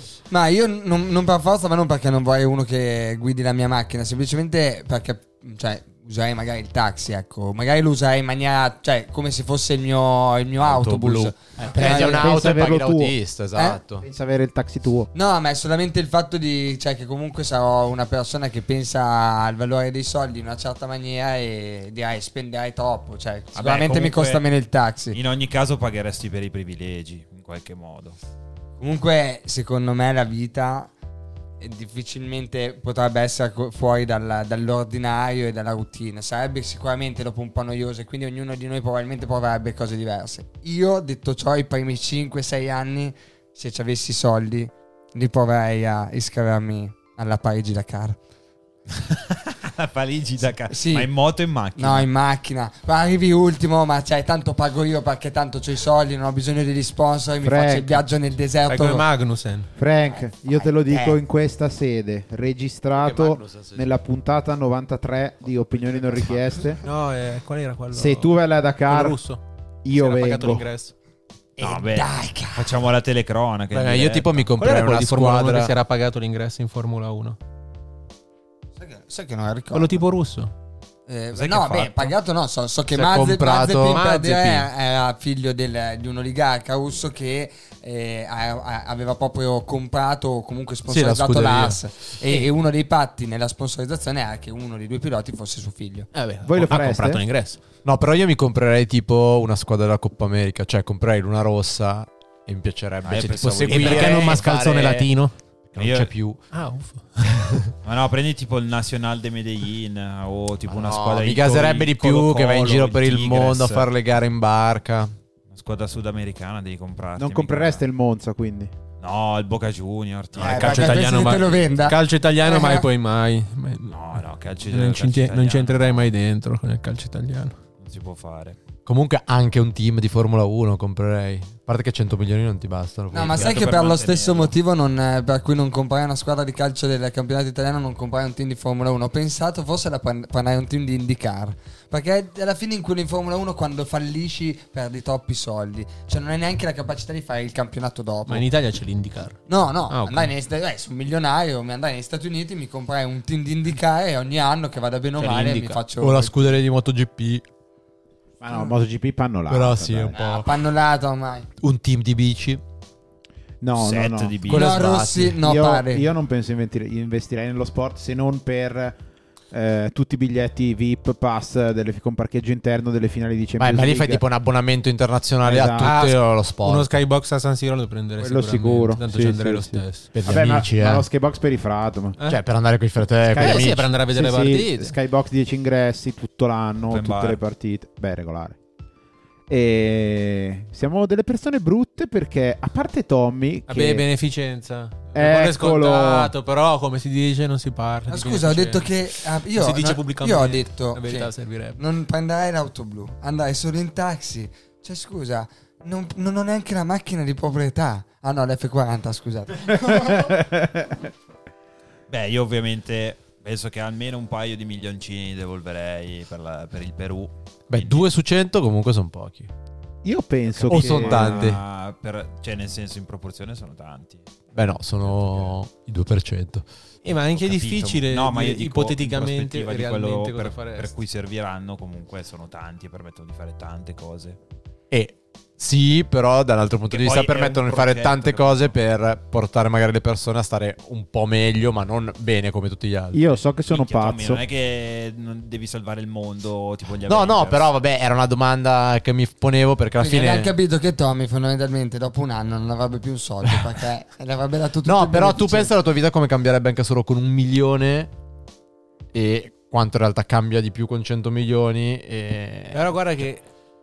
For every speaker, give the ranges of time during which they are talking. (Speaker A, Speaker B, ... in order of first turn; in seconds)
Speaker A: 0.3-12.4, 13.6-13.8, 15.1-25.2, 28.8-30.9, 31.6-48.2, 50.7-51.1, 51.8-59.1, 60.1-61.2, 71.6-72.7, 78.8-80.0, 81.1-96.1, 120.4-122.9, 133.1-148.5, 149.5-156.4, 160.1-161.5, 164.5-166.1, 198.1-210.4, 250.0-255.7
Speaker B: 10.6-14.0, 62.9-63.9, 65.8-66.4, 73.7-75.7, 82.9-84.6, 90.9-92.5, 97.8-105.1, 105.7-106.4, 110.7-115.1, 128.9-133.7, 156.0-157.4, 159.5-160.5, 161.6-162.6, 164.5-165.4, 173.6-176.9, 180.1-181.1, 182.3-183.9, 217.7-219.5, 220.7-221.6, 224.5-226.7, 234.9-243.4, 247.1-250.5, 254.8-258.1, 259.1-262.9
Speaker C: 11.7-13.2, 14.0-15.1, 57.4-58.0, 59.8-66.8, 67.9-69.2, 69.8-70.7, 96.5-97.2, 117.2-118.7, 158.4-160.2, 163.6-164.5, 165.4-169.0, 169.5-174.2, 175.4-175.9, 178.2-182.2, 183.3-188.6, 189.5-194.1, 195.2-196.3, 210.1-211.1, 220.0-221.5, 243.1-244.4
Speaker D: 23.6-24.4, 25.1-28.2, 48.9-52.1, 71.6-74.5, 81.3-82.2, 103.0-104.4, 105.8-106.1, 107.8-113.9, 115.5-117.8, 119.0-121.2, 123.9-126.1, 127.8-128.6, 133.1-134.6, 163.8-164.9, 186.9-187.4, 212.1-218.1, 220.5-225.6, 227.3-234.4, 236.9-238.8, 243.7-247.7
Speaker E: 58.7-59.7, 66.8-70.9, 74.6-77.4, 79.7-80.5, 83.9-84.5, 96.1-97.6, 103.7-105.3, 106.5-107.7, 120.4-127.6, 148.3-150.3, 155.2-155.8, 175.8-180.1, 183.3-184.9, 193.7-201.8, 227.0-230.9, 262.7-263.5